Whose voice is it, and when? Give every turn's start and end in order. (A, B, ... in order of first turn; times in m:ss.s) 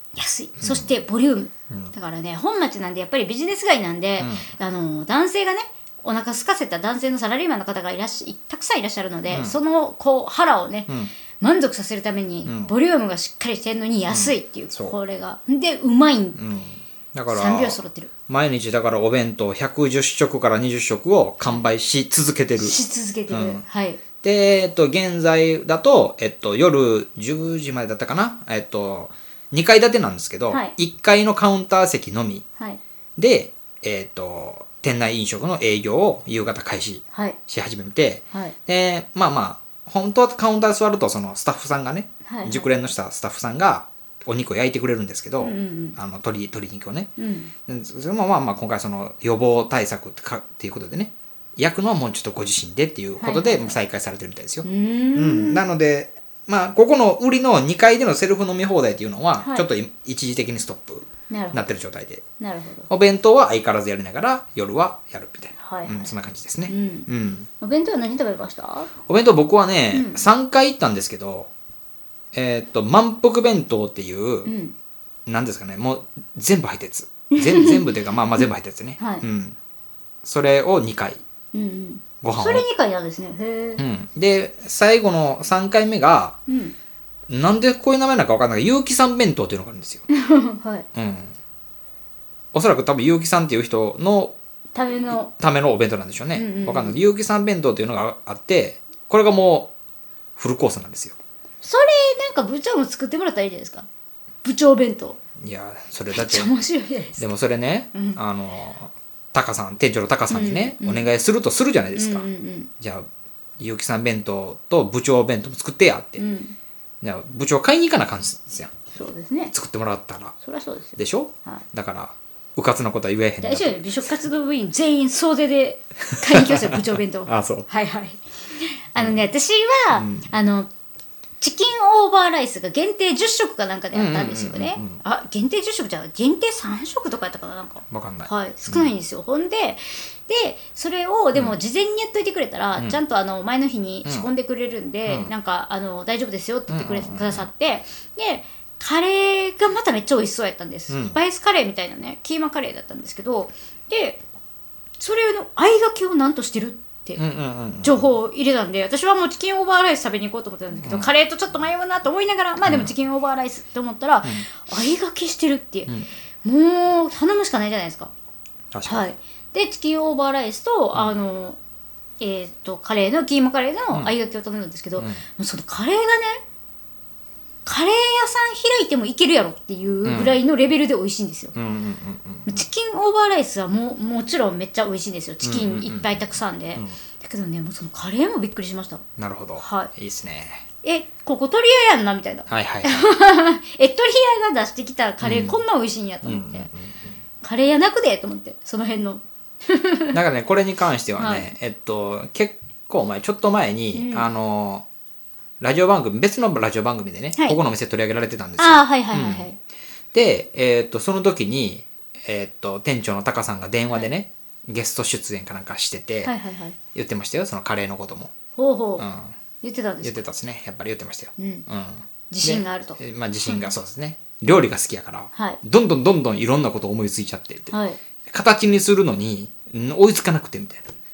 0:00.2-0:16.4 A
0:00.6-0:00.9 B
0:04.2-0:04.5 B
0:09.3-0:09.6 B
0:12.4-0:12.7 B
0:14.1-0:15.0 B
0:16.4-0:22.8 B
0:17.3-0:18.1 A
0:22.6-0:24.0 A
0:23.3-0:23.6 B
0:24.2-0:32.4 B
0:33.2-0:47.1 B
0:37.1-0:37.4 A
0:42.3-0:42.7 A
0:45.4-0:46.0 A
0:47.2-0:47.5 A
0:47.7-1:02.2 B
0:53.2-0:53.8 A
0:54.6-0:55.6 A
0:59.4-0:59.7 A
1:01.3-1:01.7 A
1:02.4-1:02.9 A
1:02.9-1:07.5 B
1:05.6-1:06.1 A
1:06.7-1:08.9 A
1:09.1-1:11.5 B
1:09.9-1:10.2 A
1:12.3-1:14.5 B
1:14.4-1:14.8 A
1:15.3-1:19.6 B
1:17.3-1:17.9 A
1:19.0-1:19.2 A
1:20.2-1:21.2 B
1:21.5-1:23.8 A
1:22.2-1:22.7 B
1:23.8-1:26.4 B
1:26.5-1:26.8 A
1:27.3-1:30.0 B
1:30.1-1:30.9 A
1:31.0-1:31.4 B
1:32.5-1:34.4 B
1:34.8-1:35.3 A
1:35.1-1:39.7 B
1:36.4-1:37.0 A
1:40.4-1:41.2 B
1:41.6-1:43.9 A
1:44.4-1:45.2 A
1:45.4-1:46.5 B
1:46.1-1:47.3 A
1:47.2-1:52.3 B
1:47.9-1:48.2 A
1:50.3-1:51.1 A
1:52.0-1:52.7 A
1:52.8-1:53.1 B
1:53.6-1:56.2 B
1:56.2-1:56.6 A
1:57.0-1:58.7 B
1:58.9-1:59.5 A
1:59.5-2:00.4 B
2:00.4-2:01.6 A
2:01.0-2:03.8 B
2:03.4-2:10.7 A
2:06.1-2:07.7 B
2:09.0-2:09.2 B
2:09.9-2:10.2 B
2:11.4-2:34.2 A
2:13.9-2:15.0 B
2:17.9-2:18.9 B
2:26.7-2:27.5 B
2:30.9-2:31.2 B
2:35.0-2:37.2 A
2:37.2-2:38.1 B
2:37.8-2:48.1 A
2:40.8-2:41.1 B
2:42.6-2:42.9 B
2:48.7-2:49.1 B
2:48.9-2:51.6 A
2:52.2-2:56.4 A
2:55.0-2:55.2 B
2:57.6-3:01.5 A
3:00.0-3:00.4 B
3:01.6-3:02.6 B
3:02.5-3:09.0 A
3:05.4-3:07.0 B
3:09.2-3:10.6 B
3:09.6-3:09.9 A
3:10.8-3:16.7 A
3:12.5-3:13.1 B
3:15.2-3:15.6 B
3:16.2-3:17.2 B
3:17.4-3:20.2 A
3:20.1-3:24.9 B
3:21.2-3:21.5 A
3:23.9-3:24.3 A
3:25.6-3:29.5 B
3:28.6-3:29.6 A
3:30.1-3:36.3 B
3:36.2-3:36.8 A
3:36.9-3:38.3 B
3:38.6-3:39.1 A
3:39.0-3:39.4 B
3:39.6-3:40.2 A
3:40.0-3:47.8 B
3:41.4-3:41.7 A
3:42.3-3:43.7 A
3:47.7-3:48.0 A
3:48.3-3:50.9 B